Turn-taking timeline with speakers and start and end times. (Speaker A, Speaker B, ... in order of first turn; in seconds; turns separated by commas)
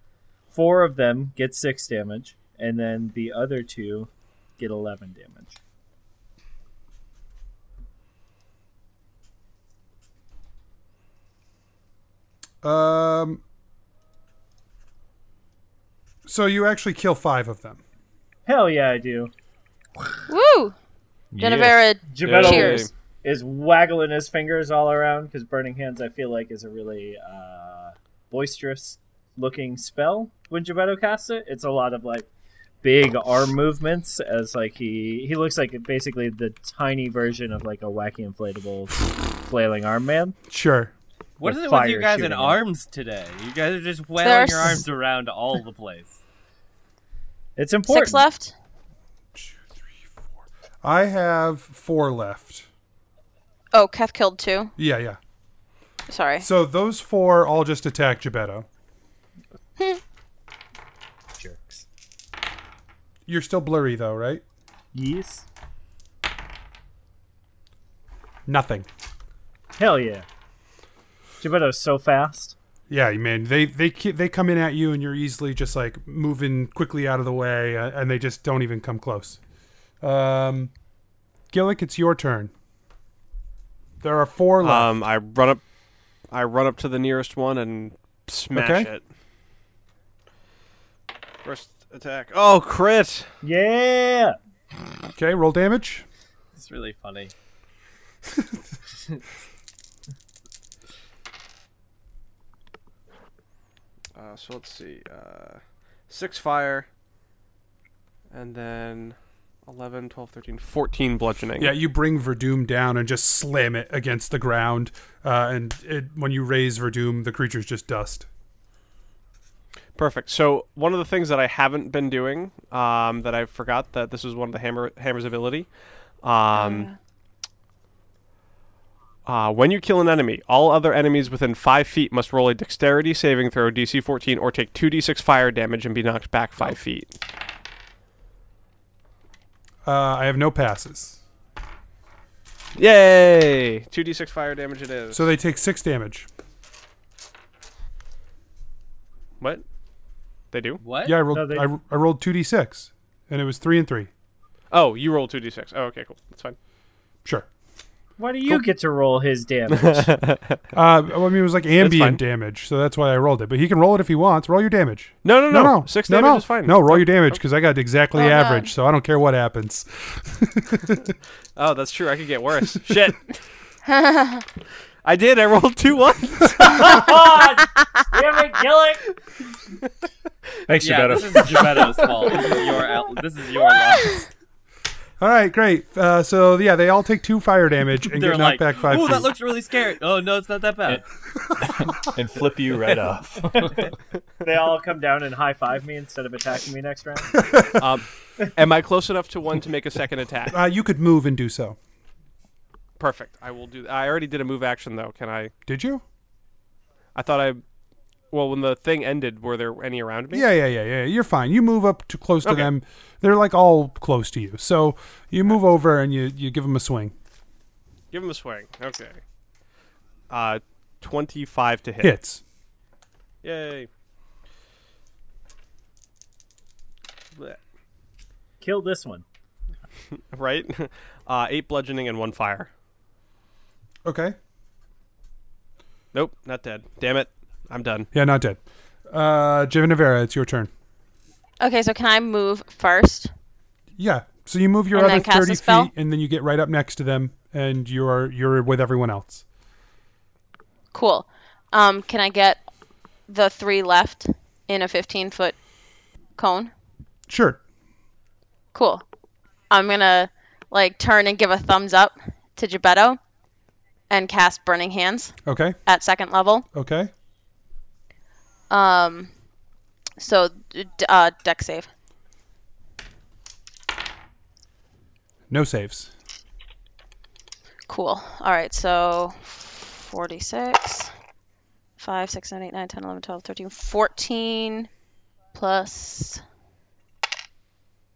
Speaker A: 0.5-5.6, Speaker B: 12.6-13.4, Speaker B: 16.2-17.8, Speaker A: 18.4-19.3, Speaker C: 20.3-20.7, Speaker D: 21.3-21.8, Speaker C: 21.4-22.8, Speaker A: 22.1-32.3, Speaker E: 22.2-22.9, Speaker A: 32.8-40.4, Speaker B: 40.5-40.9, Speaker F: 41.4-46.2, Speaker A: 41.4-42.6, Speaker C: 44.2-44.8, Speaker A: 47.5-48.2, Speaker C: 47.9-48.5, Speaker B: 49.4-49.8, Speaker B: 50.8-52.6, Speaker C: 53.7-54.7, Speaker B: 54.8-55.2, Speaker C: 56.1-56.5, Speaker B: 56.4-58.7, Speaker A: 61.4-61.8, Speaker B: 63.3-64.4, Speaker A: 64.9-65.5, Speaker B: 68.5-68.9, Speaker A: 69.8-70.2, Speaker A: 71.4-72.5, Speaker B: 72.9-79.4, Speaker B: 80.0-80.7, Speaker B: 81.5-82.5, Speaker B: 84.0-84.9, Speaker E: 84.6-85.6, Speaker E: 86.3-89.0, Speaker B: 88.5-88.9, Speaker E: 91.4-93.3, Speaker A: 93.4-94.3, Speaker B: 95.1-96.0, Speaker F: 96.5-97.3, Speaker E: 104.1-106.9, Speaker E: 108.3-111.7, Speaker B: 111.6-118.3, Speaker E: 120.0-125.7, Speaker E: 126.2-126.9, Speaker C: 126.5-127.0, Speaker E: 129.2-137.1, Speaker B: 139.8-141.2, Speaker E: 142.8-145.2, Speaker B: 145.1-146.3, Speaker E: 150.5-150.8, Speaker F: 150.8-151.2, Speaker B: 151.0-154.1, Speaker A: 151.3-151.7, Speaker E: 154.7-156.6, Speaker A: 158.2-160.1, Speaker E: 159.7-160.6, Speaker B: 160.7-171.0, Speaker E: 161.8-162.2, Speaker E: 165.2-167.4, Speaker C: 168.2-168.7, Speaker E: 171.6-173.3, Speaker C: 173.8-174.4, Speaker E: 175.0-177.2, Speaker A: 176.8-179.1, Speaker D: 180.7-182.5, Speaker F: 180.8-184.3, Speaker B: 185.2-189.3, Speaker F: 188.1-191.0, Speaker D: 191.6-193.9, Speaker F: 191.6-192.1, Speaker A: 194.4-197.5, Speaker E: 197.8-200.6, Speaker B: 200.5-201.8, Speaker E: 203.0-205.5, Speaker B: 205.7-206.0, Speaker E: 207.1-207.6, Speaker E: 208.3-210.4, Speaker B: 210.3-217.1, Speaker E: 212.4-212.7, Speaker E: 218.1-219.2, Speaker E: 220.3-222.1, Speaker B: 222.0-222.4, Speaker E: 223.4-223.9, Speaker A: 228.6-229.2, Speaker E: 230.3-232.7, Speaker B: 234.0-234.3, Speaker E: 236.1-238.1, Speaker B: 238.1-240.7, Speaker C: 241.6-243.3, Speaker B: 244.0-249.4, Speaker C: 244.9-245.9, Speaker C: 250.9-252.6, Speaker C: 253.3-255.6, Speaker C: 256.4-256.7, Speaker B: 257.3-257.6, Speaker C: 258.7-259.0, Speaker C: 259.7-263.2, Speaker C: 264.1-266.6, Speaker B: 265.4-265.8, Speaker B: 266.7-267.1, Speaker C: 268.7-269.3, Speaker C: 270.2-271.9, Speaker B: 275.5-276.1, Speaker C: 277.9-281.1, Speaker C: 282.0-284.9, Speaker C: 285.5-286.4